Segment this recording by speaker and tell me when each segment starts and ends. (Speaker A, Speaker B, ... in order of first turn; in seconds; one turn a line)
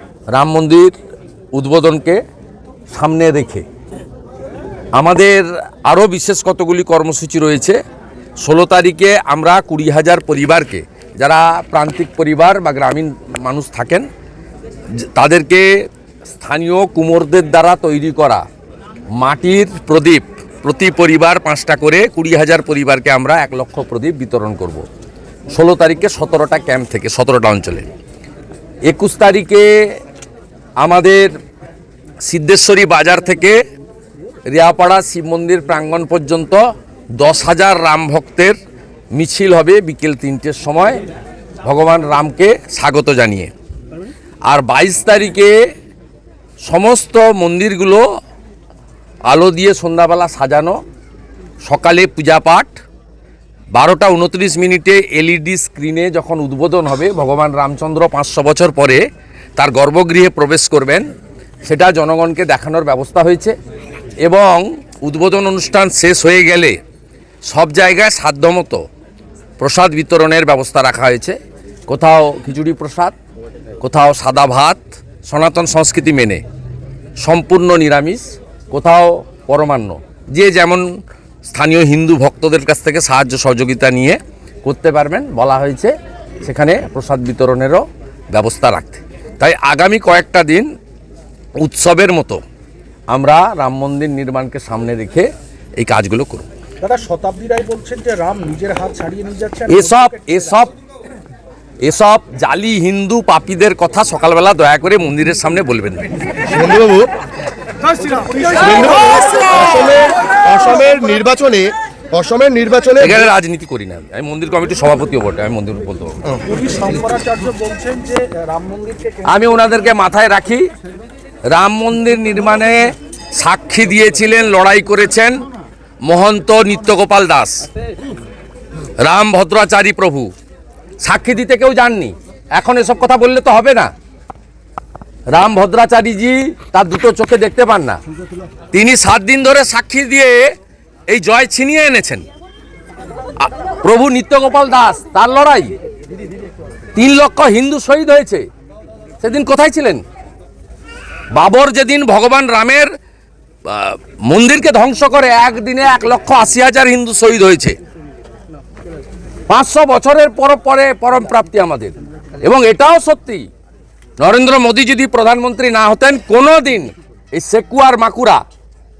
Speaker A: 0.3-0.9
Speaker A: 1.5-2.2
Speaker A: 2.9-3.6
Speaker A: 4.9-7.8
Speaker A: 8.4-14.1
Speaker A: 15.0-18.4
Speaker A: 19.2-24.8
Speaker A: 25.5-27.9
Speaker A: 28.9-29.7
Speaker A: 30.8-31.3
Speaker A: 32.2-33.6
Speaker A: 34.5-36.6
Speaker A: 37.2-38.6
Speaker A: 39.1-41.0
Speaker A: 41.6-43.5
Speaker A: 44.5-45.5
Speaker A: 46.6-48.0
Speaker A: 49.3-50.8
Speaker A: 51.7-52.8
Speaker A: 53.7-59.0
Speaker A: 59.6-61.1
Speaker A: 61.7-63.5
Speaker A: 64.2-66.8
Speaker A: 67.5-68.8
Speaker A: 69.6-71.4
Speaker A: 71.9-73.1
Speaker A: 73.8-76.4
Speaker A: 77.2-80.8
Speaker A: 81.5-90.7
Speaker A: 91.6-92.4
Speaker A: 93.1-96.5
Speaker B: 96.8-100.3
Speaker A: 99.7-100.7
Speaker A: 101.8-106.1
Speaker C: 106.5-107.1
Speaker B: 108.0-108.9
Speaker C: 108.6-113.2
Speaker A: 113.0-116.2
Speaker B: 116.4-119.4
Speaker A: 119.2-120.6
Speaker A: 121.5-125.4
Speaker A: 126.1-127.7
Speaker A: 129.0-130.3
Speaker A: 131.0-133.9
Speaker A: 135.3-138.0
Speaker A: 138.7-140.5
Speaker A: 141.1-142.2
Speaker A: 143.4-145.7
Speaker A: 146.9-148.4
Speaker A: 149.2-150.0
Speaker A: 151.3-152.9
Speaker A: 153.7-157.8
Speaker A: 159.5-163.5
Speaker A: 164.2-168.4